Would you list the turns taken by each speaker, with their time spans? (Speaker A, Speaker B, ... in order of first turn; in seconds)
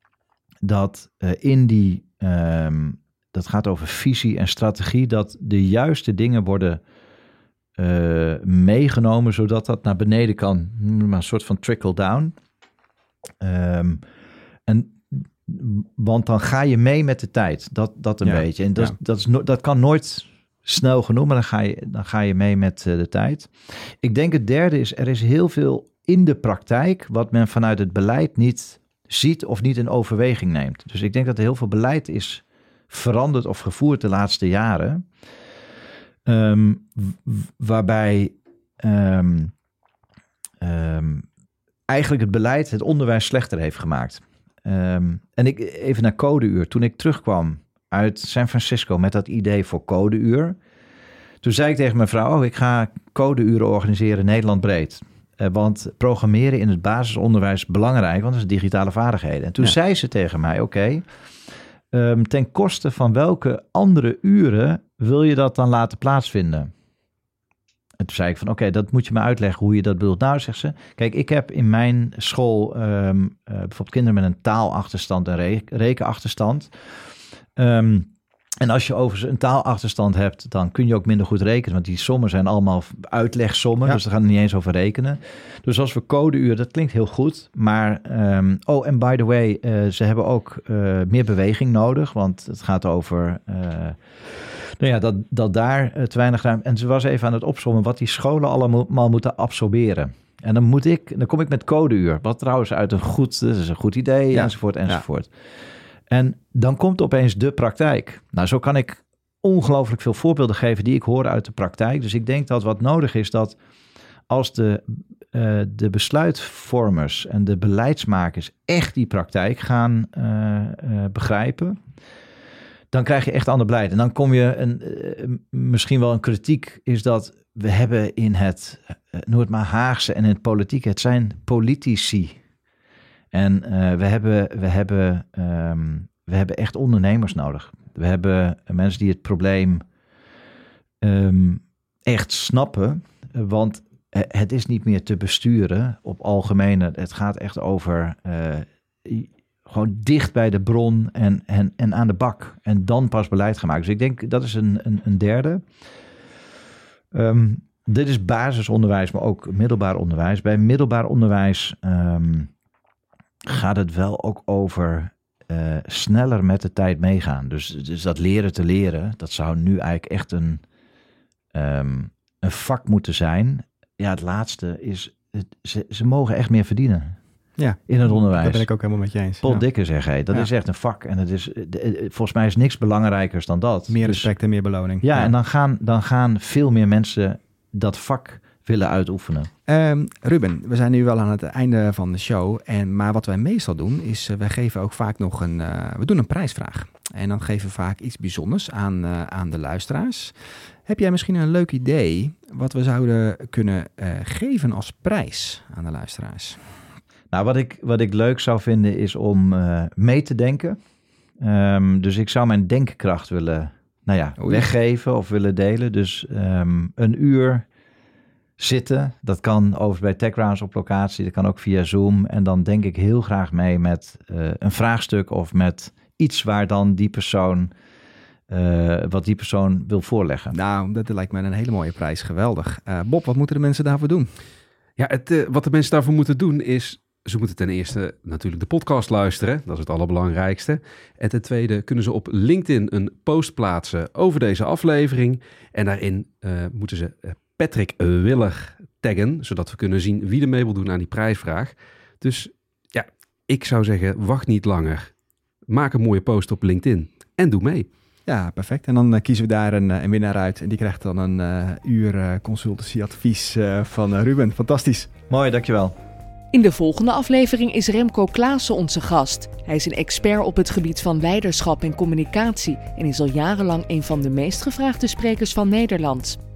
Speaker A: 0.6-6.8, 7.8-12.3, 13.4-14.0, 14.7-35.0, 36.2-39.5, 40.6-41.2, 41.9-50.6, 51.4-61.0, 61.9-66.7, 68.0-76.7, 77.5-78.1, 78.6-105.3, 106.1-113.5, 114.3-121.8, 122.9-132.4, 133.3-139.8, 141.0-155.6, 157.1-162.5, 163.4-170.6, 171.5-177.2, 177.9-178.7, 179.4-184.3, 185.0-189.5, 207.3-210.8, 211.4-217.7, 218.6-227.7, 228.5-230.5, 265.3-265.9
Speaker B: 18.2-18.9, 104.3-105.0, 177.6-179.6, 183.9-185.3, 189.7-200.3, 200.8-206.7, 214.4-214.6, 230.5-234.3, 258.2-265.1
Speaker C: 235.0-255.1, 255.7-257.9
Speaker D: 266.5-276.4